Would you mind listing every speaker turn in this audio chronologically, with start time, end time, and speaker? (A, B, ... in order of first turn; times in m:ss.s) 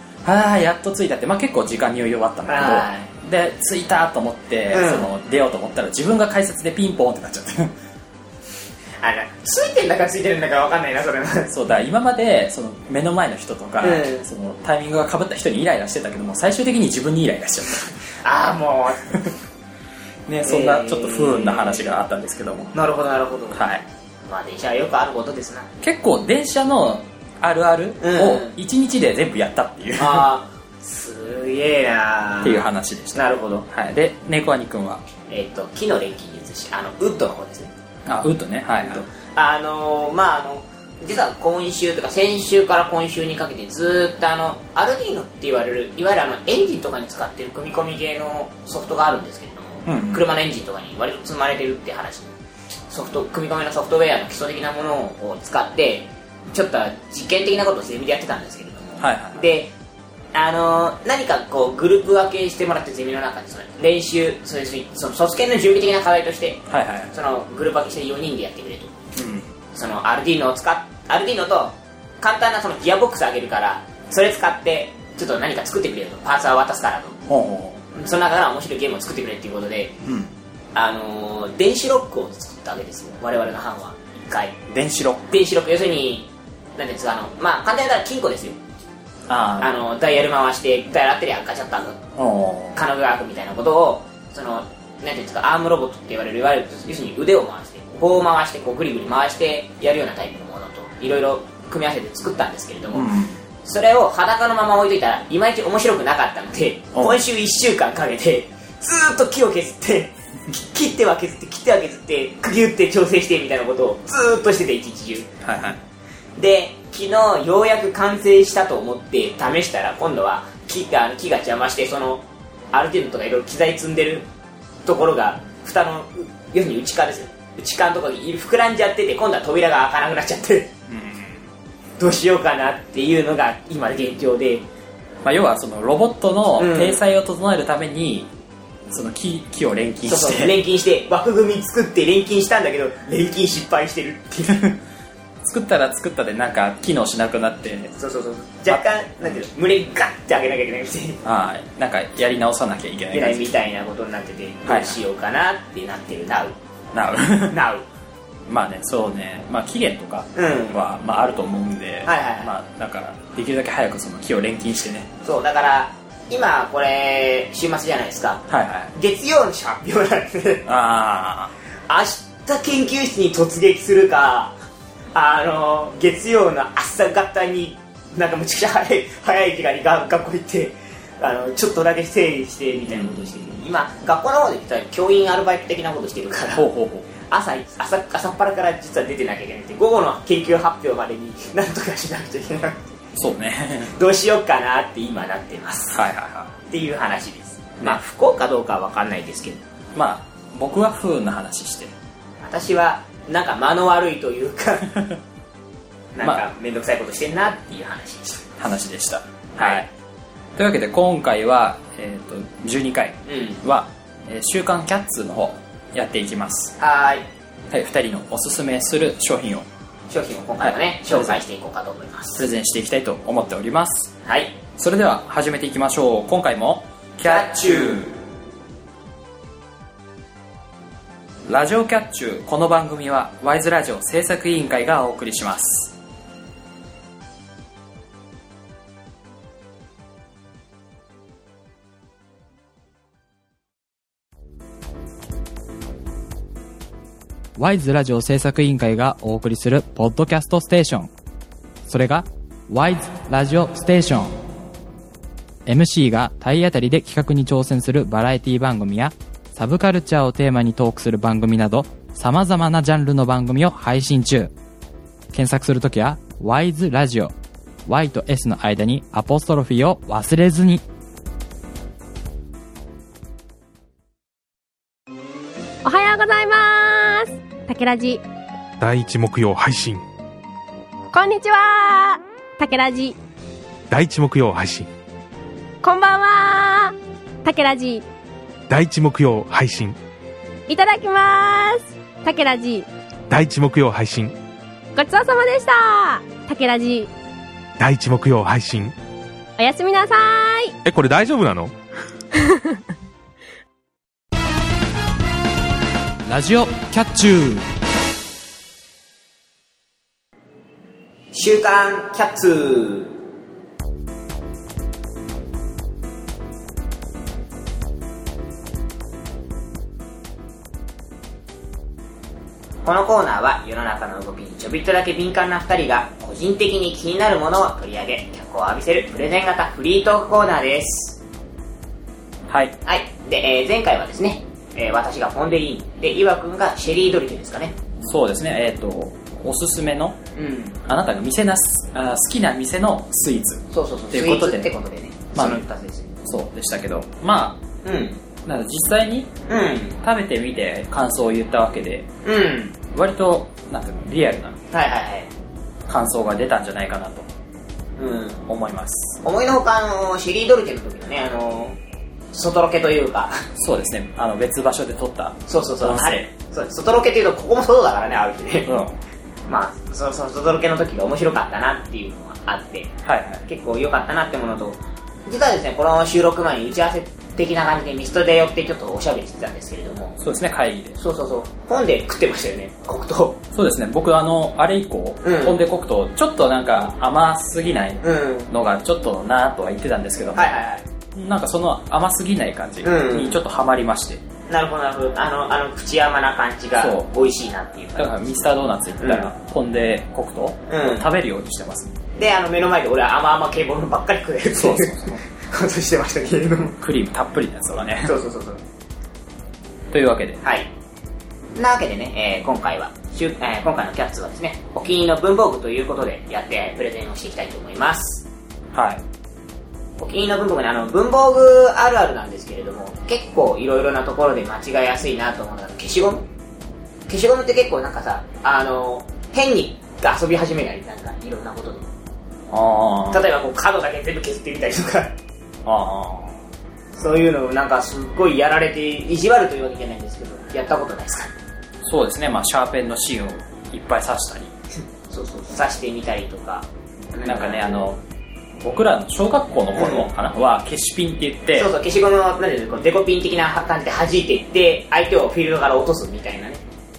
0:00.2-0:07.7 A
0:02.5-0:03.1 B
0:04.7-0:05.1 B
0:09.0-0:11.5 B
0:11.5-0:17.9 A
0:13.8-0:14.2 B
0:18.2-0:19.2 B
0:20.3-0:22.7 A
0:20.4-0:22.0 B
0:22.7-0:23.6 B
0:23.5-0:23.8 A
0:24.3-0:25.7 B
0:25.8-0:30.3 A
0:28.0-0:28.6 B
0:30.0-0:32.6 B
0:32.4-0:35.0 A
0:33.1-0:33.7 B
0:35.3-0:37.7 B
0:38.0-0:39.0 A
0:38.8-0:52.3 B
0:49.8-0:50.2 A
0:52.9-0:59.7 B
0:59.0-0:59.4 A
1:00.3-1:08.9 B
1:06.7-1:07.1 A
1:09.2-1:09.5 A
1:09.7-1:17.2 B
1:17.3-1:17.8 A
1:17.9-1:20.0 B
1:20.0-1:20.3 A
1:20.7-1:24.6 B
1:24.7-1:25.3 A
1:25.3-1:28.6 B
1:29.3-1:29.7 A
1:29.6-1:32.0 B
1:32.2-1:32.8 A
1:32.7-1:43.1 B
1:42.9-1:43.4 A
1:43.6-1:55.3 B
1:55.4-1:55.8 A
1:56.4-2:04.3 B
2:04.8-2:10.7 B
2:10.9-2:11.4 A
2:12.0-2:14.6 B
2:15.2-2:18.3 A
2:16.6-2:17.0 B
2:18.9-2:20.5 A
2:20.0-2:24.7 B
2:24.5-2:24.8 A
2:25.4-2:27.9 A
2:27.9-2:31.2 B
2:28.7-2:29.4 A
2:31.2-2:33.6 A
2:33.1-2:36.6 B
2:34.7-2:35.0 A
2:36.9-2:37.6 A
2:37.5-2:37.8 B
2:38.5-2:45.1 A
2:40.3-2:40.8 B
2:42.0-2:42.5 B
2:45.2-2:50.6 B
2:48.5-2:48.9 A
2:50.6-2:51.5 A
2:51.9-2:54.5 B
2:55.1-3:06.7 B
3:06.5-3:07.1 A
3:07.3-3:13.0 B
3:13.2-3:13.9 A
3:13.9-3:16.0 B
3:15.9-3:16.5 A
3:16.7-3:19.6 B
3:19.9-3:21.9 A
3:22.4-3:24.9 B
3:26.1-3:28.5 B
3:28.6-3:29.9 A
3:29.6-3:29.8 B
3:30.6-3:36.8 A
3:33.3-3:33.6 B
3:36.8-3:37.2 B
3:37.7-3:39.6 A
3:40.1-3:42.4 B
3:40.6-3:41.4 A
3:42.3-3:44.1 A
3:44.2-3:44.6 B
3:44.8-3:48.1 A
3:47.2-3:48.0 B
3:51.4-3:56.0 A
4:07.6-4:11.1 A
4:11.8-4:14.3 A
4:15.6-4:24.5 A
4:25.3-4:27.3 A
4:27.8-4:30.8 A
4:35.8-4:38.2 C
4:38.8-4:40.0 D
4:41.1-4:43.1 C
4:43.9-4:44.9 D
4:45.8-4:46.9 C
4:47.4-4:48.0 C
4:48.7-4:50.0 D
4:50.7-4:52.9 C
4:53.3-4:54.3 D
4:55.0-4:57.1 C
4:57.8-4:58.9 D
4:59.6-5:00.7 C
5:00.8-5:01.7 D
5:06.2-5:07.6 A
5:11.3-5:13.1 B
5:22.8-5:31.2 B
5:32.5-5:32.8 A
5:32.8-5:37.8 B
5:38.0-5:40.2 A
5:40.3-5:40.8 B
5:40.8-5:44.7 A
5:43.7-5:46.2 B
5:45.3-5:45.6 A
5:46.2-5:47.6 A
5:47.8-5:48.2 B
5:48.4-5:49.4 A
5:49.5-5:50.0 B
5:50.0-5:52.1 A
5:52.2-5:52.8 B
5:52.9-5:54.6 A
5:54.7-5:55.3 B
5:55.9-5:57.3 A
5:58.0-5:58.4 B
5:58.5-5:59.2 A
5:59.2-6:01.8 B
6:02.3-6:03.4 B
6:03.6-6:06.3 A
6:05.5-6:08.7 B
6:08.6-6:09.0 A
6:09.5-6:12.9 B
6:13.0-6:13.4 A
6:13.4-6:20.2 B
6:20.2-6:21.0 A
6:21.0-6:23.4 B
6:23.5-6:30.6 A
6:25.2-6:25.6 B
6:28.0-6:28.5 B
6:30.3-6:30.8 B
6:31.1-6:34.2 A
6:32.8-6:33.4 B
6:34.5-6:38.5 B
6:36.8-6:37.1 A
6:38.0-6:42.0 A
6:39.0-6:39.3 B
6:40.7-6:41.1 B
6:42.2-6:46.8 B
6:44.5-6:45.2 A
6:46.8-6:48.1 A
6:48.0-6:48.6 B
6:49.9-6:50.4 A
6:50.4-6:50.7 B
6:51.5-6:58.2 B
6:58.7-6:59.0 A
7:00.0-7:06.2 B
7:07.1-7:11.9 B
7:12.5-7:13.2 A
7:13.1-7:15.1 B
7:15.6-7:16.4 A
7:16.9-7:21.3 B
7:21.8-7:24.5 A
7:25.1-7:27.8 B
7:27.2-7:28.0 A
7:28.6-7:31.7 A
7:29.8-7:30.1 B
7:31.5-7:36.6 B